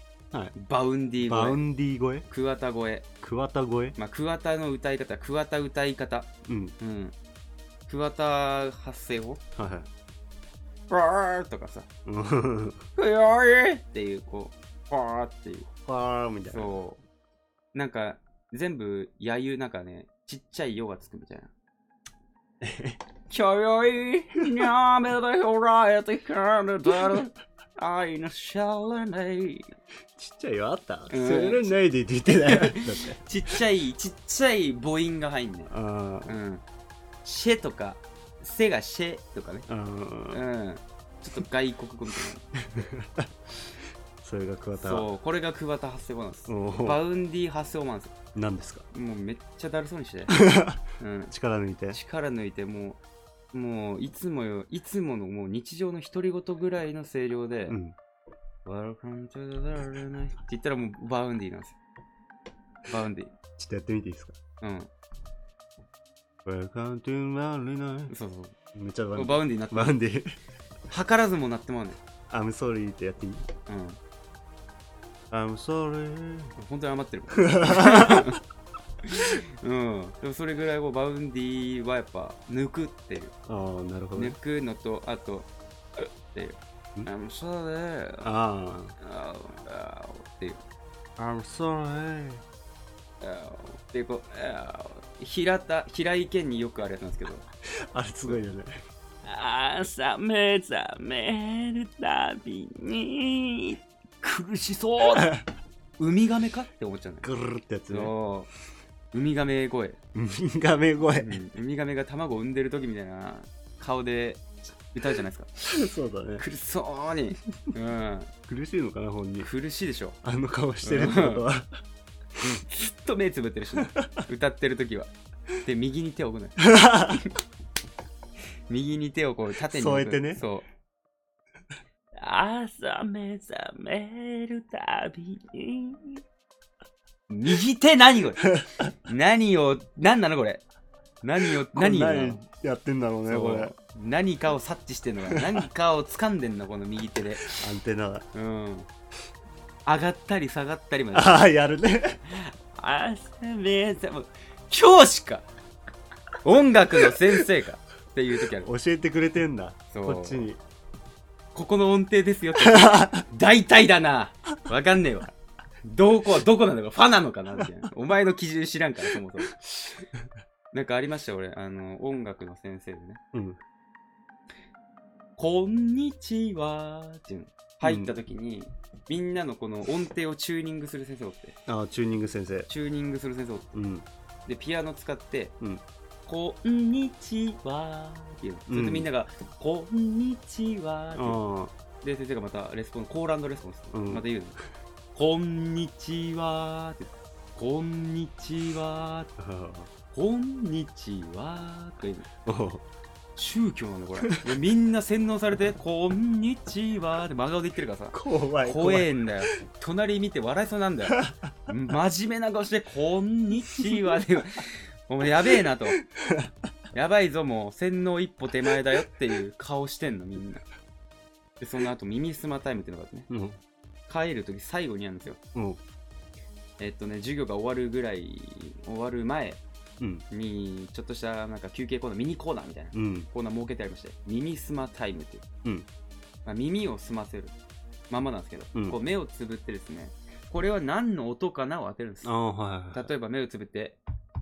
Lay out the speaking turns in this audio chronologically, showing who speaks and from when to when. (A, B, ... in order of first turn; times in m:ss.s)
0:00.5-0:01.6 A
0:01.2-0:02.2 B
0:02.3-0:03.1 A
0:03.2-0:04.0 B
0:04.0-0:07.1 A
0:06.4-0:06.7 B
0:07.9-0:09.4 A
0:09.5-0:09.9 B
0:10.9-0:11.9 A
0:12.0-0:12.8 B
0:13.0-0:15.7 A
0:15.8-0:16.8 B
0:16.4-0:17.0 A
0:17.7-0:21.5 A
0:22.6-0:23.0 B
0:23.3-0:29.7 A
0:30.2-0:33.2 B
0:31.1-0:31.7 A
0:32.3-0:35.7 A
0:35.7-0:36.4 B
0:36.2-0:36.6 A
0:37.2-0:39.7 A
0:39.7-0:40.4 B
0:40.3-0:42.4 A
0:42.6-0:43.3 B
0:44.2-0:45.1 B
0:44.8-0:48.1 A
0:46.5-0:47.0 B
0:48.3-0:48.8 B
0:48.9-0:50.4 A
0:50.3-0:52.0 B
0:51.0-0:51.3 A
0:51.9-0:53.0 A
0:53.5-0:57.8 A
0:57.7-0:58.0 B
0:58.6-1:01.8 A
1:02.9-1:03.3 A
1:03.6-1:04.4 B
1:04.6-1:04.9 A
1:06.4-1:08.1 B
1:08.1-1:08.6 A
1:08.7-1:10.3 B
1:09.1-1:09.9 A
1:10.9-1:12.0 A
1:12.3-1:13.4 B
1:13.7-1:14.0 A
1:15.3-1:16.5 B
1:16.6-1:18.4 A
1:17.4-1:18.4 B
1:19.0-1:23.3 A
1:23.5-1:24.4 B
1:24.1-1:28.2 A
1:28.2-1:28.9 B
1:29.0-1:30.6 A
1:31.2-1:32.4 B
1:33.2-1:37.4 A
1:37.7-1:38.8 B
1:39.2-1:45.4 A
1:45.1-1:45.4 B
1:46.0-1:47.3 A
1:47.2-1:48.1 B
1:47.9-1:48.5 A
1:49.1-1:50.0 A
1:50.1-1:51.4 B
1:51.0-1:55.7 A
1:55.6-1:56.4 B
1:56.4-1:58.3 A
1:58.5-1:59.5 B
1:59.4-2:00.2 A
2:00.2-2:01.8 B
2:00.8-2:01.4 A
2:02.4-2:07.3 A
2:06.6-2:07.2 B
2:08.7-2:10.6 A
2:09.7-2:10.4 B
2:12.2-2:16.2 A
2:17.3-2:20.6 A
2:18.5-2:18.9 B
2:21.2-2:22.4 A
2:21.5-2:23.7 B
2:23.3-2:27.6 A
2:25.3-2:25.6 B
2:27.4-2:28.2 B
2:28.3-2:28.9 A
2:29.8-2:31.5 A
2:31.1-2:32.2 B
2:32.3-2:35.4 A
2:36.4-2:38.7 A
2:38.6-2:40.6 B
2:39.9-2:40.4 A
2:41.5-2:45.3 A
2:42.6-2:43.2 B
2:45.8-2:49.9 A
2:50.7-2:53.2 A
2:53.3-2:53.6 B
2:55.4-3:01.6 A
2:57.8-2:58.1 B
3:01.7-3:02.7 B
3:02.7-3:03.7 A
3:03.7-3:04.0 B
3:04.5-3:05.5 A
3:06.2-3:11.4 A
3:08.7-3:09.1 B
3:11.1-3:11.7 B
3:12.0-3:14.6 A
3:13.9-3:14.2 B
3:15.1-3:19.3 A
3:19.4-3:19.9 B
3:20.1-3:22.3 A
3:22.4-3:22.8 B
3:23.4-3:36.0 A
3:24.2-3:24.5 B
3:28.1-3:29.2 B
3:31.2-3:31.4 B
3:35.7-3:36.5 B
3:36.9-3:40.6 A
3:41.6-3:43.3 A
3:43.3-3:43.6 B
3:44.1-3:45.4 A
3:45.5-3:45.8 B
3:46.8-3:49.6 A
3:50.3-3:55.4 A
3:52.9-3:53.3 B
3:56.4-3:57.6 A
3:58.1-4:02.3 A
3:58.7-3:59.0 B
4:02.2-4:03.1 B
4:02.9-4:04.0 A